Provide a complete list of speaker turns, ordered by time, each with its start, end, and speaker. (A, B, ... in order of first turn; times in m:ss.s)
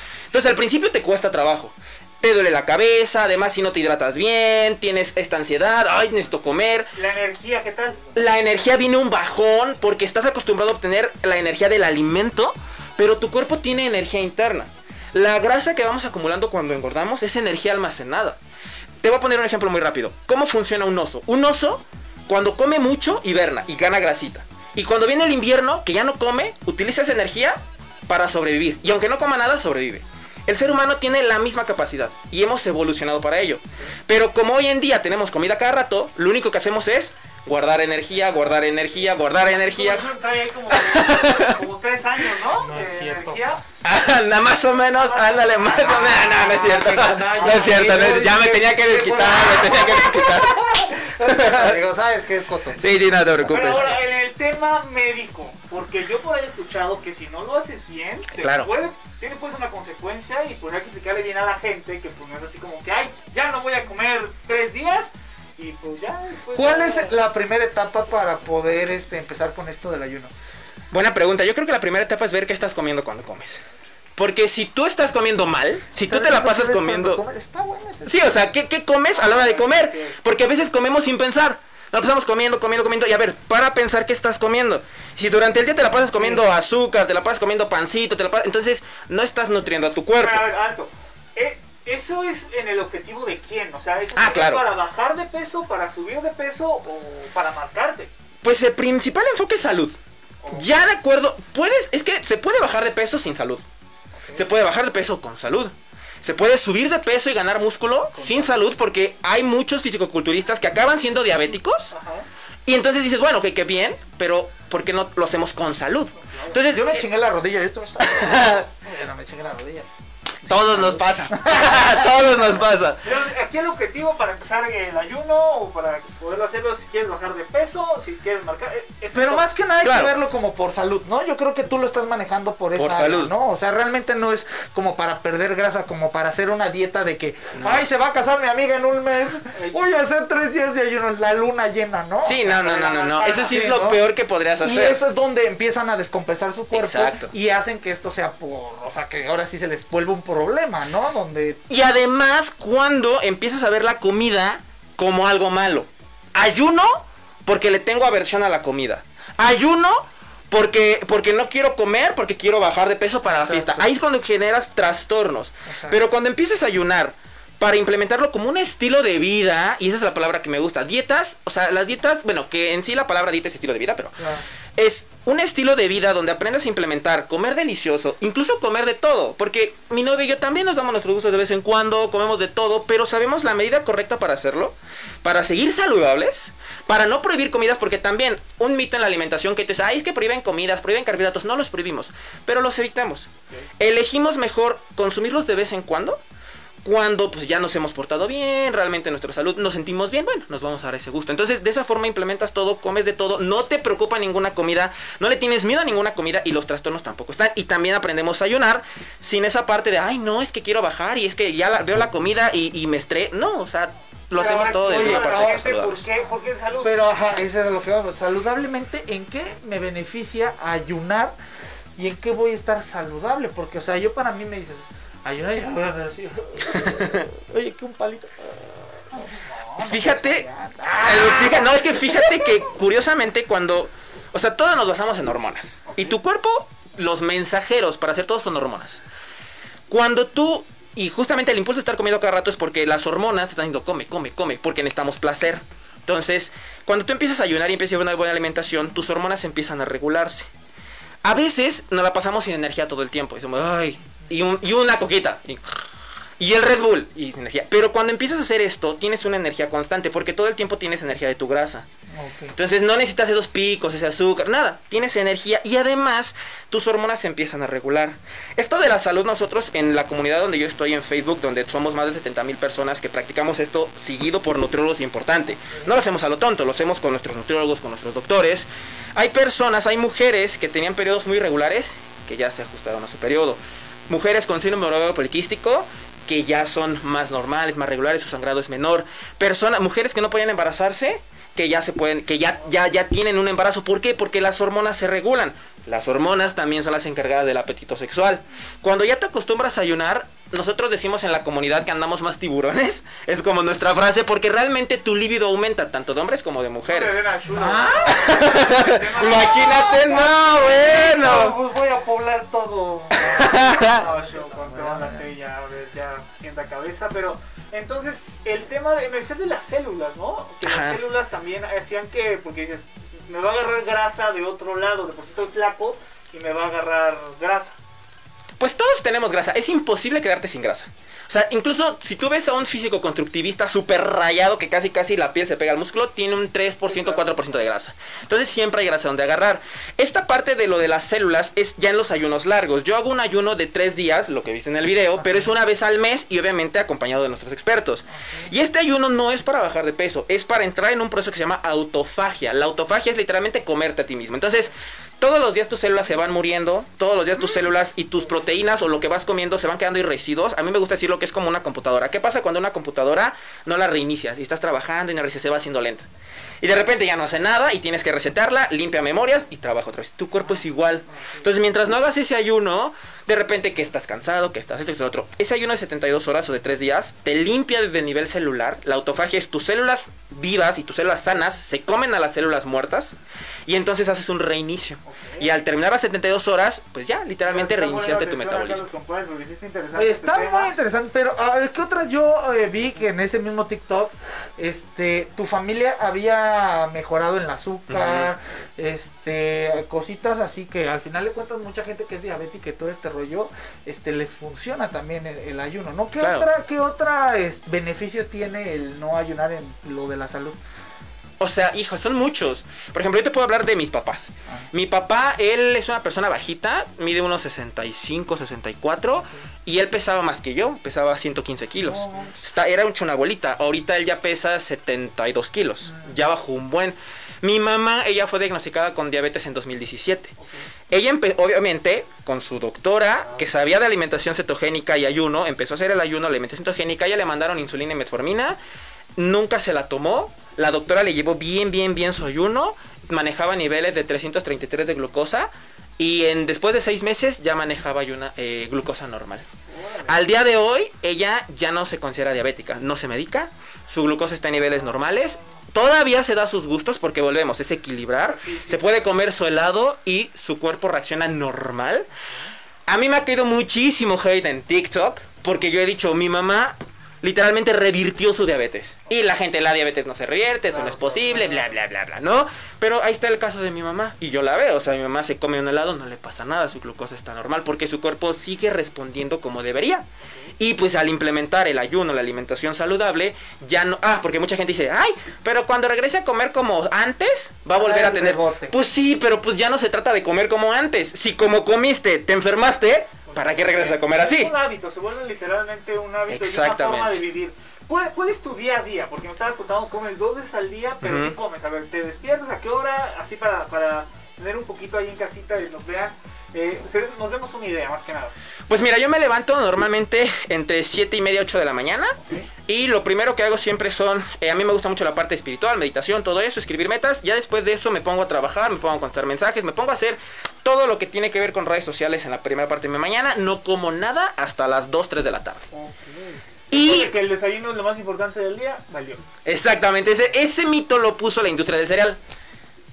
0:00.3-0:06.9 A
0:06.9-0:08.1 B
0:08.1-0:18.4 A
0:19.0-0:40.1 A
0:38.9-0:43.6 B
0:40.7-0:41.6 A
0:42.6-0:43.4 C
0:43.8-0:51.8 A
0:44.9-0:46.5 B
0:46.0-0:53.9 C
0:52.8-0:54.0 A
0:53.4-1:07.2 B
0:58.4-0:58.7 A
1:06.5-1:10.3 C
1:10.9-1:13.6 A
1:14.2-1:17.2 A
1:16.0-1:18.2 C
1:18.0-1:30.5 A
1:19.1-1:20.2 B
1:30.2-1:38.1 B
1:34.1-1:34.7 A
1:38.4-1:40.0 A
1:40.5-1:43.6 A
1:44.3-1:51.9 A
1:48.2-1:48.6 C
1:51.9-1:52.2 B
1:52.6-1:57.0 A
1:56.3-1:56.6 B
1:56.6-1:59.9 C
1:58.0-1:58.7 A
2:00.4-2:02.6 C
2:00.4-2:03.0 A
2:03.0-2:09.5 B
2:09.1-2:22.6 C
2:09.8-2:10.1 A
2:12.7-2:13.3 A
2:17.6-2:17.8 A
2:22.2-2:25.0 A
2:22.5-2:23.5 B
2:23.2-2:24.0 C
2:24.6-2:31.6 C
2:26.7-2:27.3 A
2:31.7-2:54.2 A
2:43.2-2:43.9 C
2:45.7-2:46.0 C
2:54.2-2:54.4 C
2:54.8-3:16.2 A
3:16.8-3:36.0 A
3:34.3-3:37.0 B
3:34.8-3:35.7 C
3:36.8-3:41.3 C
3:42.0-3:52.6 C
3:46.7-3:47.3 A
3:49.8-3:50.5 A
3:51.0-3:59.0 A
3:55.9-3:56.2 B
3:59.9-4:10.4 A
4:11.2-4:15.6 A
4:16.4-4:21.8 A
4:22.1-4:22.5 C
4:22.6-5:07.2 A
5:06.9-5:09.9 B
5:07.5-5:08.4 C
5:08.1-5:11.6 A
5:09.3-5:15.2 C
5:13.2-5:14.0 A
5:13.8-5:27.8 B
5:20.6-5:21.0 A
5:28.6-6:06.0 A
5:36.9-5:37.2 B
5:45.2-5:45.5 C
6:06.6-6:23.1 A
6:23.7-6:28.8 A
6:25.0-6:25.5 B
6:27.4-6:30.7 B
6:29.9-6:50.6 C
6:37.9-6:38.3 A
6:46.2-6:46.5 A
6:51.4-7:10.3 A
7:01.8-7:02.3 C
7:10.9-7:18.6 A
7:19.2-7:29.4 A
7:29.7-7:30.2 B
7:30.1-7:42.1 A
7:38.3-7:39.1 B
7:42.9-8:00.0 A
7:50.7-7:51.7 B
8:00.6-8:14.5 A
8:07.7-8:08.8 C
8:13.3-8:28.3 B
8:16.3-8:17.2 A
8:21.0-8:21.4 A
8:28.7-8:45.6 A
8:45.7-8:49.2 B
8:46.7-8:47.1 A
8:49.4-8:52.2 A